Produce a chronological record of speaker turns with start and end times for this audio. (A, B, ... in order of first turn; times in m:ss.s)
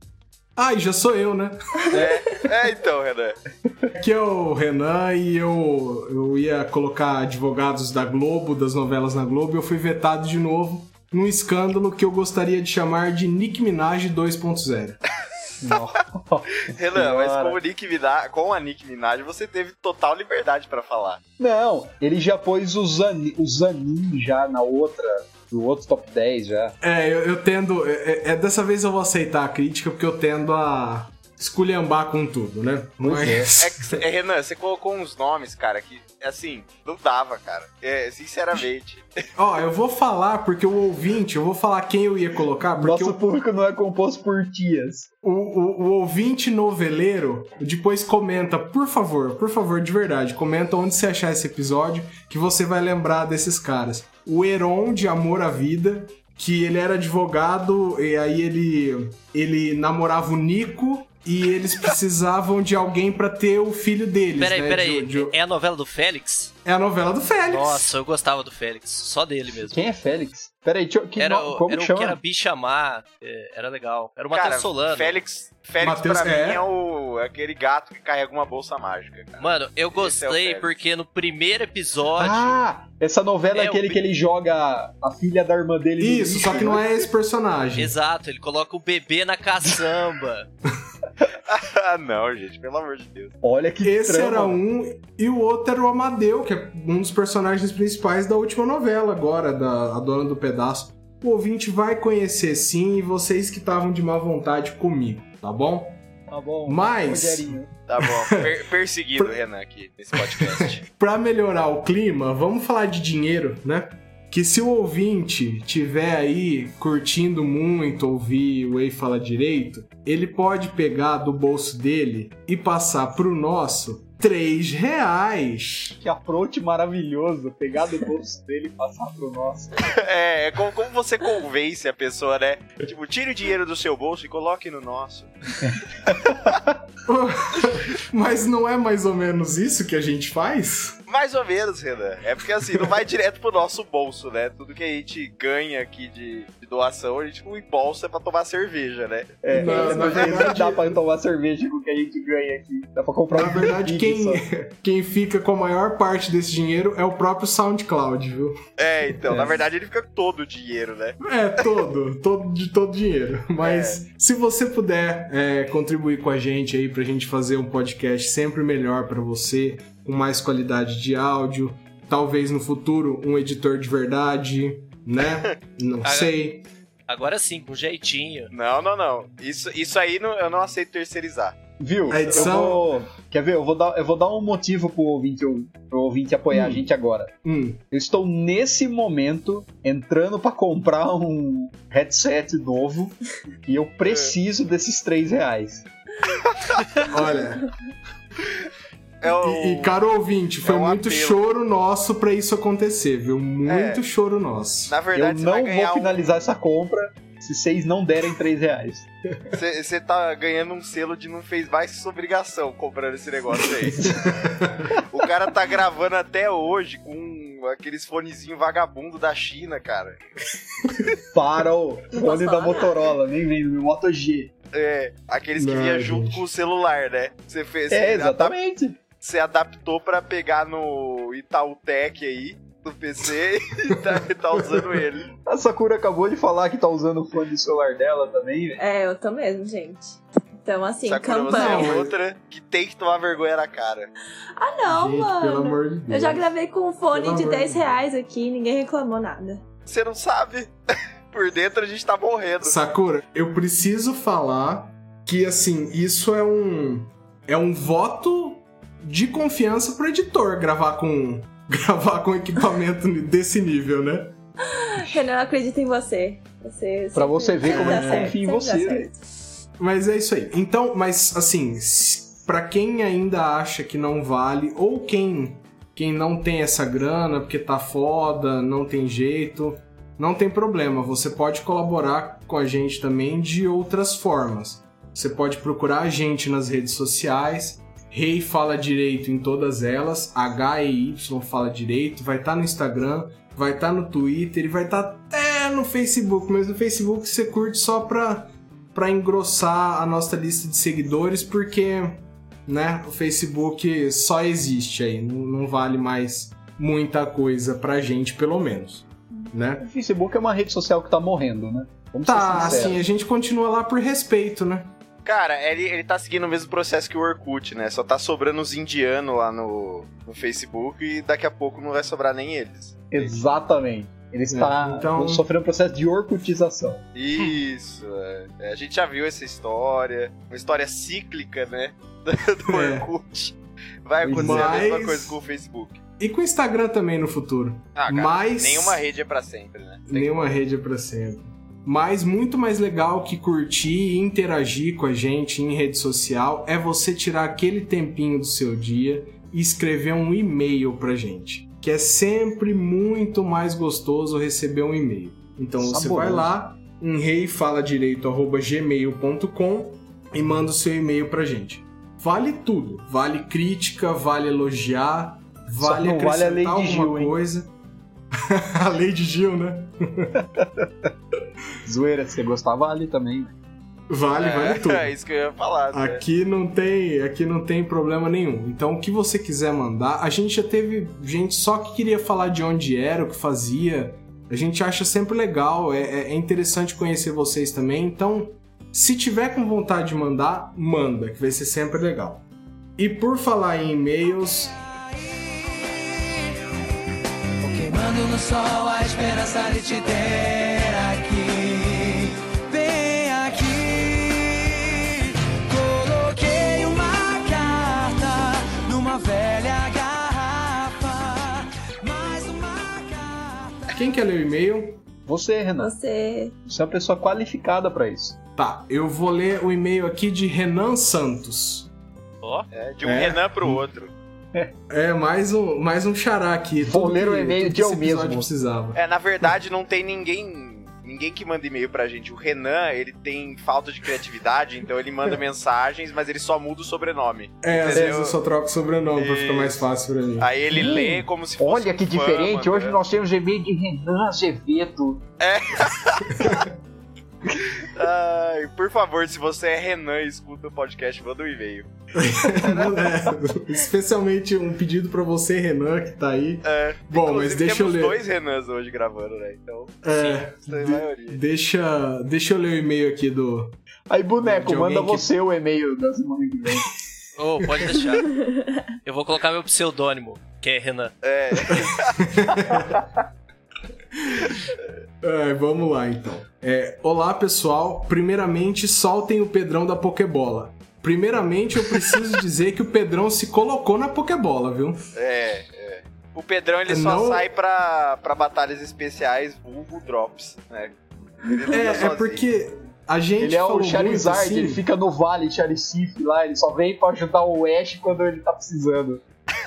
0:00.6-0:02.1 A
0:01.9-0:03.4 B
0:04.0-0:15.0 A
0:15.6-0:17.6 C
0:16.6-0:21.2 B
0:21.4-0:26.7 C
0:26.8-0:34.0 A
0:33.0-0:33.5 C
0:33.6-0:39.0 B
0:39.4-0:43.2 A
0:42.8-0:45.1 C
0:45.2-1:05.3 A
1:04.4-1:06.5 D
1:06.6-1:08.0 A
1:07.5-1:09.8 D
1:09.7-1:12.2 C
1:11.2-1:15.2 D
1:14.3-1:20.7 B
1:15.8-1:16.6 A
1:19.4-1:22.6 D
1:22.2-1:26.9 C
1:23.5-1:24.0 D
1:26.0-1:27.9 A
1:27.8-1:30.5 D
1:31.4-1:33.3 B
1:33.4-1:34.6 C
1:33.8-1:46.0 A
1:46.3-1:47.7 C
1:46.6-1:48.5 A
1:47.9-1:50.8 B
1:50.1-2:06.0 A
2:06.0-2:09.8 C
2:09.8-2:16.5 B
2:17.0-2:21.0 A
2:21.1-2:30.4 B
2:29.4-2:34.4 C
2:29.5-2:31.0 A
2:33.3-2:38.6 A
2:38.8-2:41.2 B
2:39.3-2:39.6 C
2:41.2-2:56.7 A
2:43.6-2:44.0 B
2:56.0-2:56.3 D
2:57.1-2:58.5 D
2:58.5-3:01.6 B
3:01.8-3:07.3 C
3:02.1-3:02.9 A
3:02.1-3:02.5 B
3:06.5-3:06.9 A
3:07.4-3:07.8 A
3:07.9-3:15.8 C
3:14.0-3:14.3 B
3:17.0-3:17.7 A
3:19.2-3:20.0 B
3:19.2-3:25.0 A
3:20.6-3:21.4 B
3:23.6-3:24.0 B
3:24.9-3:26.2 B
3:25.1-3:29.1 C
3:29.5-3:40.2 B
3:33.9-3:34.9 A
3:41.3-3:44.5 C
3:42.1-3:43.0 E
3:44.7-3:48.5 B
3:45.5-3:46.4 A
3:47.9-3:49.0 C
3:49.2-3:55.3 B
3:55.4-3:58.8 C
3:58.8-4:02.0 E
4:01.0-4:04.1 B
4:01.5-4:02.2 A
4:04.6-4:09.6 E
4:04.8-4:06.4 A
4:07.1-4:08.0 A
4:09.9-4:10.7 B
4:11.3-4:12.8 B
4:12.6-4:24.4 A
4:24.7-4:29.1 E
4:27.1-4:29.1 C
4:27.6-4:28.4 A
4:29.8-5:09.8 A
5:09.8-5:13.0 C
5:12.2-5:14.9 A
5:15.2-5:23.4 B
5:23.1-5:27.0 C
5:24.5-5:25.4 A
5:27.1-5:36.0 B
5:32.7-5:33.1 A
5:34.2-5:34.8 C
5:34.3-5:35.4 A
5:36.2-5:39.0 A
5:38.0-5:40.3 B
5:40.1-6:07.7 A
5:55.8-5:56.5 C
6:05.8-6:07.4 C
6:08.3-6:10.3 A
6:10.4-6:10.9 C
6:11.8-6:13.5 C
6:14.1-6:15.1 A
6:14.3-6:16.2 B
6:15.9-6:32.4 A
6:33.0-6:34.8 A
6:35.5-6:36.4 F
6:37.6-6:53.8 F
6:53.9-6:55.0 A
6:55.3-6:55.9 C
6:55.8-6:56.5 E
6:56.6-6:58.4 C
6:58.6-7:01.9 A
7:02.4-7:02.7 D
7:02.7-7:04.1 B
7:03.0-7:03.8 A
7:04.9-7:09.5 A
7:06.8-7:08.5 C
7:08.9-7:18.4 B
7:17.6-7:21.0 A
7:17.9-7:18.2 C
7:19.1-7:19.8 B
7:20.4-7:23.0 B
7:20.7-7:25.2 C
7:25.4-7:26.7 B
7:26.4-7:26.7 A
7:27.6-7:31.9 B
7:32.1-7:38.2 A
7:32.6-7:33.0 B
7:36.6-7:41.4 B
7:40.0-7:43.8 A
7:40.1-7:40.4 D
7:44.1-7:46.9 C
7:44.4-7:45.3 A
7:47.4-7:51.1 D
7:51.2-7:52.2 B
7:51.7-7:53.0 A
7:54.1-7:54.6 A
7:55.2-8:05.0 A
8:05.1-8:12.4 B
8:06.9-8:07.5 A
8:11.7-8:14.8 A
8:13.4-8:19.2 C